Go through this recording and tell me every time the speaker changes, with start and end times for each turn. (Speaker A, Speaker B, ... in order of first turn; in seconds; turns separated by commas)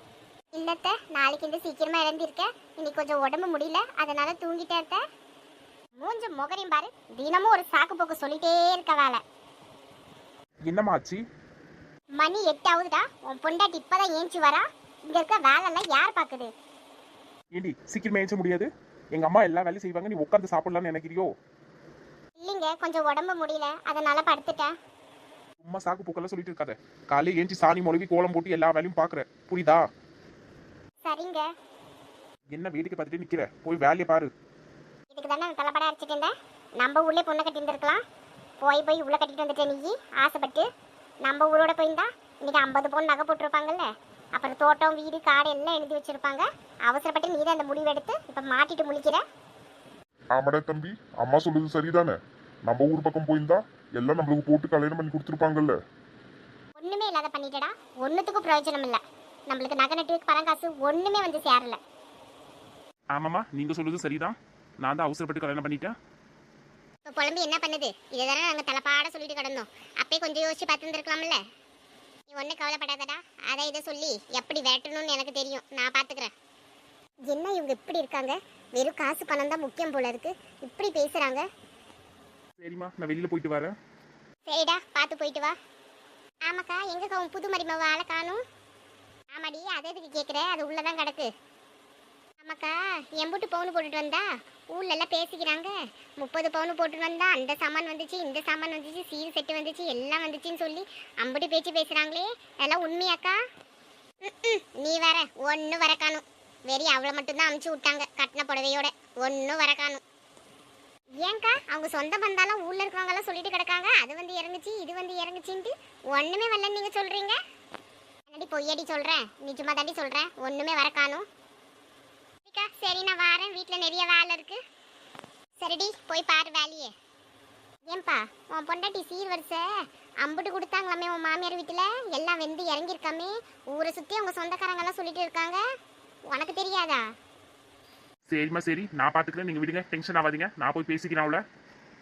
Speaker A: 0.5-5.0, Speaker A: 6.0-9.2, Speaker B: 10.7-11.2, Speaker A: 12.2-16.5, Speaker B: 17.5-21.3, Speaker A: 22.4-24.7, Speaker B: 25.6-29.8, Speaker A: 31.0-31.4, Speaker B: 32.5-34.3, Speaker A: 35.1-38.0, Speaker A: 38.6-40.7, Speaker A: 41.2-49.2, Speaker C: 50.3-55.8, Speaker A: 56.8-61.8, Speaker B: 63.1-65.9, Speaker A: 67.0-71.4, Speaker A: 72.3-76.3, Speaker A: 77.3-81.5, Speaker B: 82.6-83.7, Speaker A: 84.5-85.5, Speaker A: 86.5-88.4, Speaker A: 89.3-91.3, Speaker A: 92.4-103.4, Speaker A: 104.2-110.0, Speaker A: 111.2-117.4, Speaker A: 118.3-121.2, Speaker A: 122.5-124.6, Speaker A: 125.6-126.9, Speaker A: 127.9-129.7, Speaker A: 130.2-135.6, Speaker A: 136.3-137.1, Speaker B: 138.3-141.4